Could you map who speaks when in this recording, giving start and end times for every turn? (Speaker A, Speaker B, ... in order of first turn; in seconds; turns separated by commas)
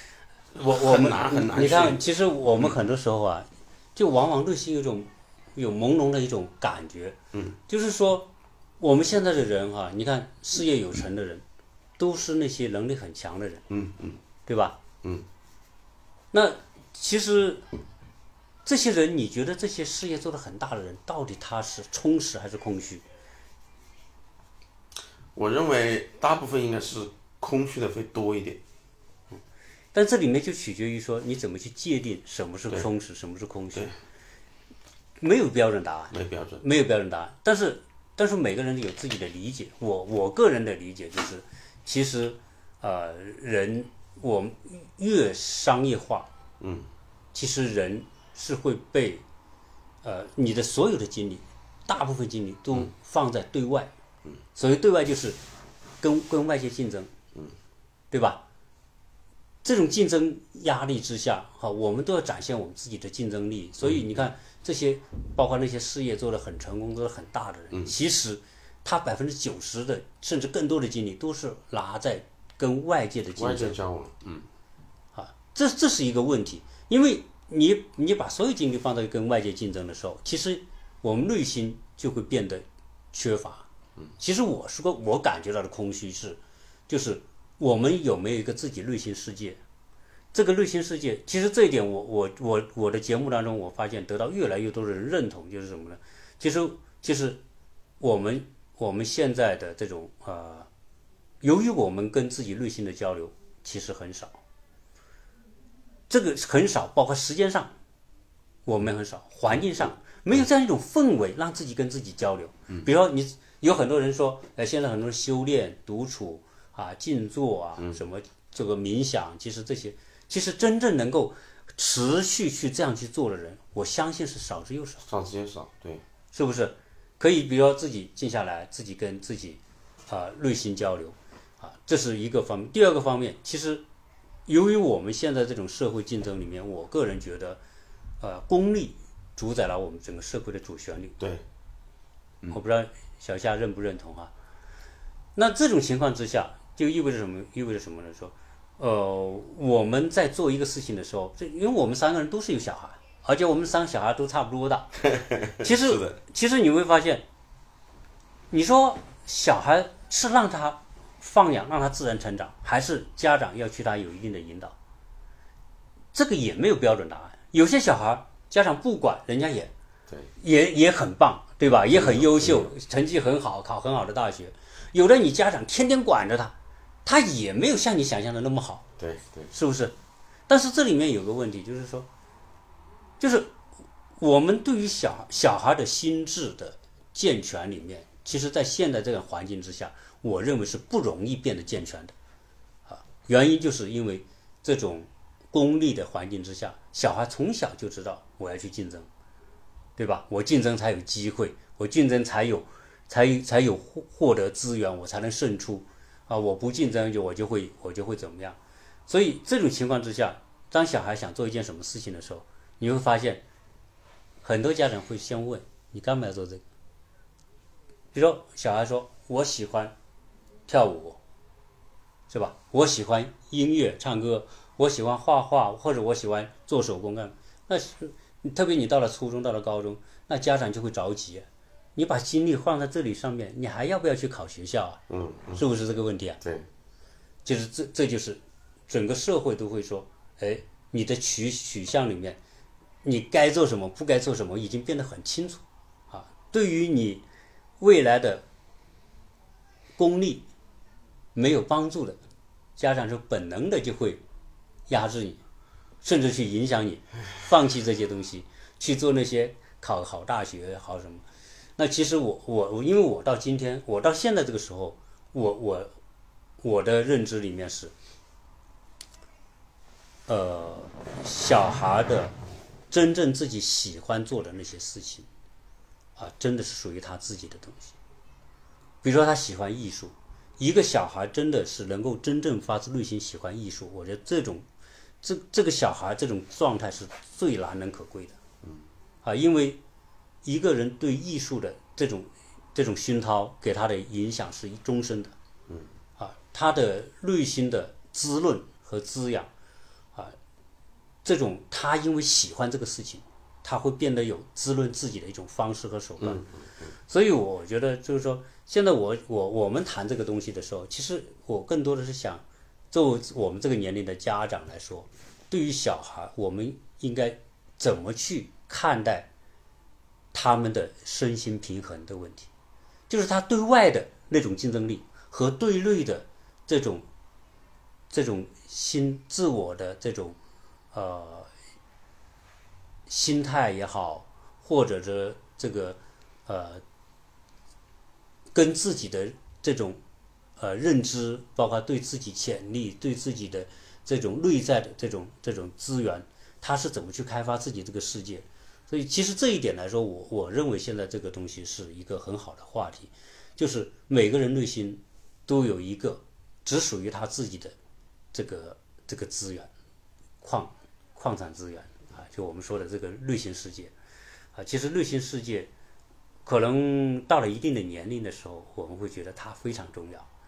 Speaker A: 0.5-2.0, Speaker B: 0.6-7.2, Speaker B: 7.7-11.4, Speaker B: 12.0-13.6, Speaker A: 13.7-14.2, Speaker B: 14.5-14.8, Speaker B: 16.3-17.6, Speaker B: 18.6-23.0, Speaker A: 25.3-28.6, Speaker B: 29.9-33.9, Speaker B: 35.2-46.3, Speaker A: 36.1-36.6, Speaker A: 46.6-46.9, Speaker B: 47.3-49.2, Speaker B: 50.0-53.9, Speaker B: 54.5-55.4, Speaker B: 56.0-57.1, Speaker B: 58.1-58.4, Speaker B: 59.6-73.8, Speaker A: 73.3-74.5, Speaker B: 75.1-83.7, Speaker B: 84.2-89.6, Speaker B: 90.3-97.4, Speaker B: 98.0-100.7, Speaker B: 101.4-104.4, Speaker B: 106.1-107.7, Speaker B: 108.7-125.0, Speaker A: 125.0-126.0, Speaker B: 126.3-133.8, Speaker B: 134.4-137.6, Speaker B: 138.2-141.2, Speaker A: 141.2-141.4, Speaker B: 142.5-144.3, Speaker B: 145.3-155.0, Speaker A: 155.0-156.2, Speaker B: 155.6-157.2, Speaker B: 158.5-164.8, Speaker B: 166.1-169.7, Speaker B: 170.4-178.8, Speaker A: 171.9-172.7, Speaker A: 179.0-179.5, Speaker B: 179.5-179.9, Speaker B: 180.5-182.1, Speaker B: 183.2-183.5, Speaker B: 184.2-192.1, Speaker B: 192.9-199.1, Speaker B: 200.0-213.4, Speaker B: 214.4-216.6, Speaker B: 218.1-219.9, Speaker B: 220.7-221.2, Speaker B: 222.3-235.0, Speaker A: 235.1-235.6, Speaker B: 235.6-236.4, Speaker A: 236.4-236.7, Speaker B: 237.4-242.4, Speaker B: 243.0-247.2, Speaker B: 247.8-248.4, Speaker B: 250.0-250.5, Speaker B: 251.3-252.2, Speaker B: 252.8-254.2, Speaker B: 254.9-255.4, Speaker B: 256.0-261.2, Speaker B: 261.8-265.9, Speaker B: 266.6-267.9, Speaker B: 270.3-272.3, Speaker B: 272.9-275.3, Speaker B: 276.1-277.9, Speaker B: 279.0-284.6, Speaker B: 285.2-288.4, Speaker B: 289.2-289.8, Speaker B: 290.4-295.3, Speaker B: 296.2-299.5, Speaker B: 301.2-306.4, Speaker A: 306.2-306.9, Speaker B: 307.1-319.3, Speaker B: 320.3-322.5, Speaker B: 323.1-327.1, Speaker B: 328.1-330.4, Speaker B: 330.9-331.5, Speaker B: 333.1-336.8, Speaker B: 338.5-340.0, Speaker B: 340.6-357.7, Speaker B: 358.3-359.7, Speaker B: 360.4-363.9, Speaker B: 364.5-365.7, Speaker B: 366.4-370.3